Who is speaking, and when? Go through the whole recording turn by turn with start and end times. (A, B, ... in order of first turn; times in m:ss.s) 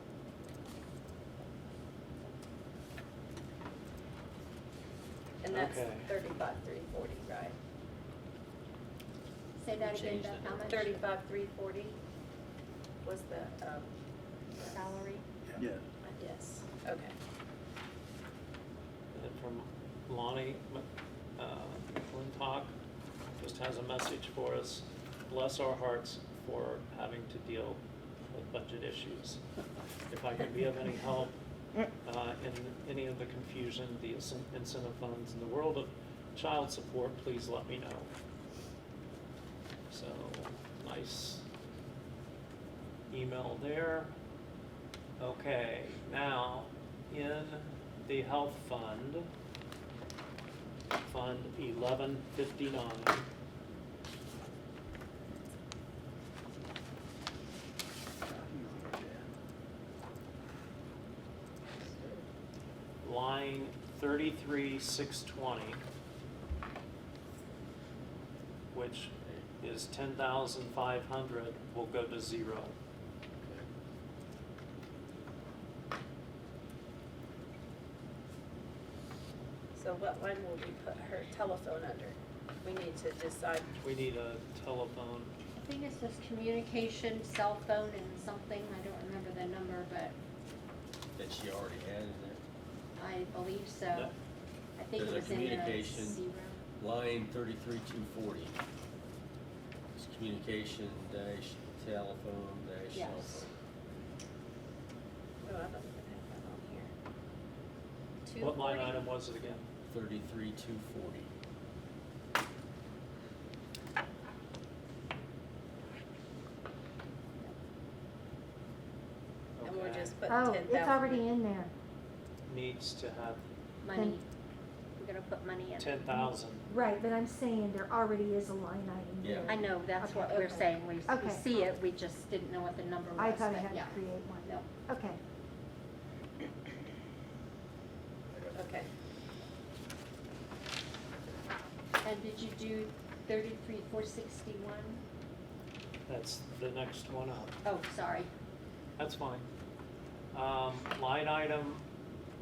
0:05.4-0:07.6 A
0:05.5-0:06.1 B
0:09.6-0:11.0 C
0:09.8-0:10.8 D
0:10.0-0:12.0 A
0:13.0-0:13.9 A
0:14.7-0:15.2 C
0:16.0-0:17.1 A
0:19.1-0:22.7 B
0:23.4-0:29.4 B
0:30.1-0:31.4 B
0:32.0-0:38.1 B
0:39.9-0:41.4 B
0:43.1-0:44.1 B
0:45.2-0:49.3 B
0:51.0-0:53.3 B
1:03.0-1:05.8 B
1:08.7-1:12.8 B
1:09.2-1:09.5 D
1:13.4-1:13.7 D
1:19.7-1:23.7 A
1:23.8-1:25.3 B
1:25.6-1:30.2 C
1:31.2-1:32.4 D
1:33.0-1:34.1 C
1:34.8-1:36.6 C
1:35.0-1:36.2 D
1:36.8-1:38.6 D
1:40.0-1:43.5 D
1:42.9-1:43.5 C
1:45.4-1:46.9 A
1:48.2-1:49.0 A
1:48.4-1:49.6 B
1:49.8-1:51.3 D
1:59.6-2:00.2 B
1:59.6-2:01.2 A
2:00.3-2:01.7 E
2:02.5-2:03.4 B
2:03.8-2:04.2 C
2:03.9-2:04.2 E
2:05.0-2:06.3 C
2:05.8-2:06.6 B
2:06.7-2:11.4 E
2:09.2-2:09.6 D
2:09.5-2:14.7 C
2:13.2-2:15.2 E
2:18.3-2:18.6 D
2:18.5-2:18.9 A
2:22.0-2:25.0 C
2:26.1-2:27.5 B
2:27.6-2:28.3 C
2:29.0-2:29.4 B
2:30.3-2:31.8 B